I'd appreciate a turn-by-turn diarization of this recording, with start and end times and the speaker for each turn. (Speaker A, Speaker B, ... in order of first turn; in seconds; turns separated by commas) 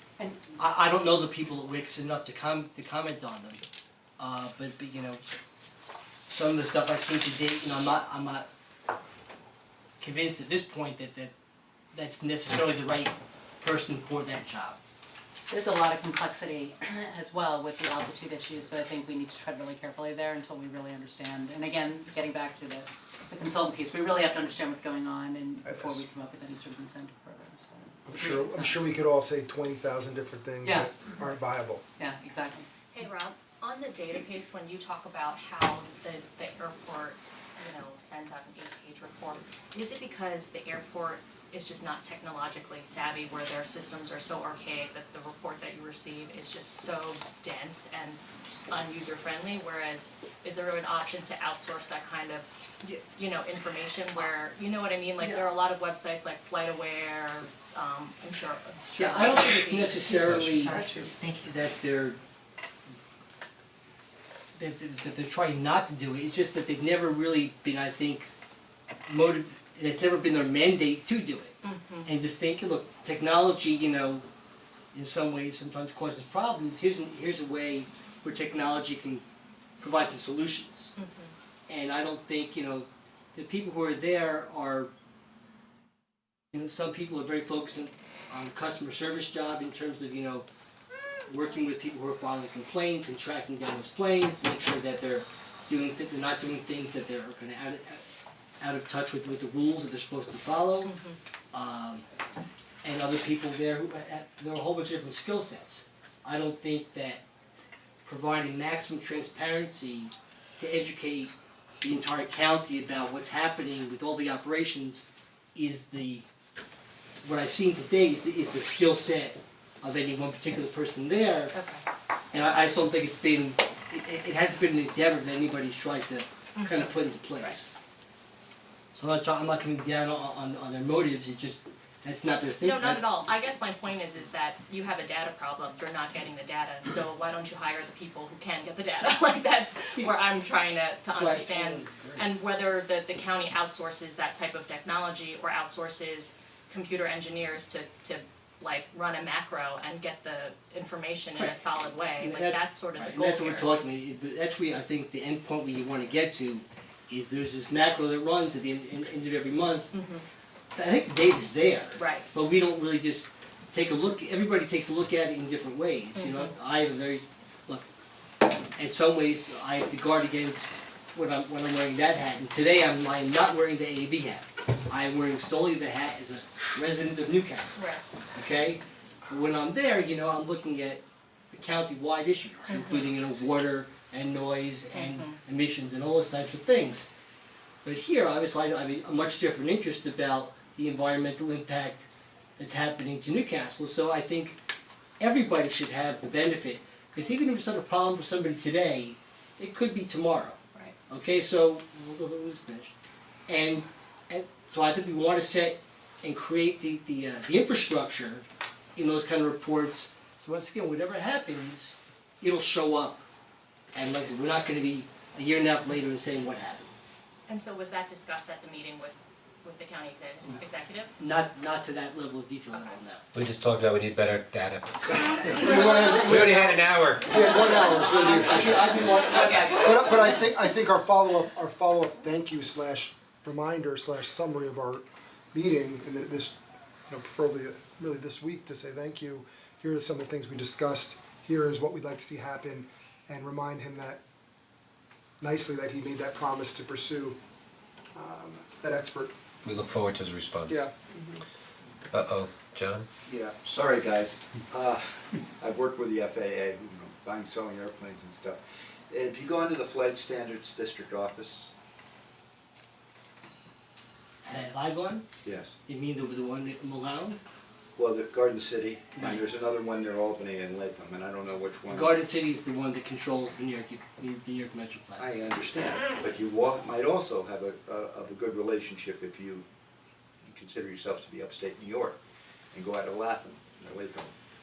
Speaker A: 0.5-3.6, Speaker A: 4.2-5.2, Speaker A: 6.3-8.5, Speaker A: 10.0-11.3, Speaker A: 11.9-14.8, Speaker B: 15.5-28.9, Speaker C: 25.6-26.0, Speaker C: 28.1-31.8, Speaker B: 30.6-30.9, Speaker B: 32.0-32.7, Speaker D: 32.9-52.5, Speaker D: 53.0-60.3, Speaker A: 58.9-62.2, Speaker E: 60.2-60.6, Speaker B: 60.6-61.3, Speaker A: 64.5-68.3, Speaker A: 69.1-74.2, Speaker D: 71.6-72.1, Speaker A: 74.9-79.2, Speaker A: 79.8-81.0, Speaker D: 81.0-81.3, Speaker A: 81.7-84.9, Speaker A: 86.5-90.4, Speaker A: 91.3-98.0, Speaker A: 98.6-100.9, Speaker D: 100.8-101.2, Speaker A: 101.5-102.0, Speaker A: 102.8-107.2, Speaker A: 108.0-116.2, Speaker A: 117.2-121.5, Speaker D: 121.5-121.8, Speaker A: 122.3-127.7, Speaker D: 126.5-127.5, Speaker A: 128.9-133.0, Speaker D: 132.6-153.8, Speaker A: 141.2-142.2, Speaker A: 152.2-159.9, Speaker D: 159.9-160.2, Speaker A: 160.8-167.8, Speaker D: 161.9-162.3, Speaker D: 166.1-166.5, Speaker A: 168.8-177.8, Speaker D: 177.8-178.0, Speaker A: 178.3-187.1, Speaker D: 182.7-183.0, Speaker D: 184.9-185.4, Speaker A: 187.8-194.6, Speaker A: 195.2-202.9, Speaker A: 203.5-208.4, Speaker A: 208.9-213.2, Speaker A: 213.9-216.9, Speaker D: 217.5-221.1, Speaker A: 221.2-223.2, Speaker E: 223.3-227.4, Speaker C: 225.4-229.1, Speaker A: 227.9-230.2, Speaker D: 229.1-229.6, Speaker C: 229.7-236.5, Speaker C: 237.1-244.2, Speaker C: 245.4-247.4, Speaker C: 248.1-249.3, Speaker E: 249.6-250.8, Speaker C: 250.7-250.9, Speaker E: 252.1-253.1, Speaker F: 253.2-261.7, Speaker A: 264.4-265.2, Speaker F: 265.4-265.7, Speaker A: 265.9-267.4, Speaker F: 268.0-272.2, Speaker A: 269.1-269.4, Speaker A: 271.9-275.4, Speaker F: 275.2-279.6, Speaker F: 280.4-282.2, Speaker F: 282.7-284.3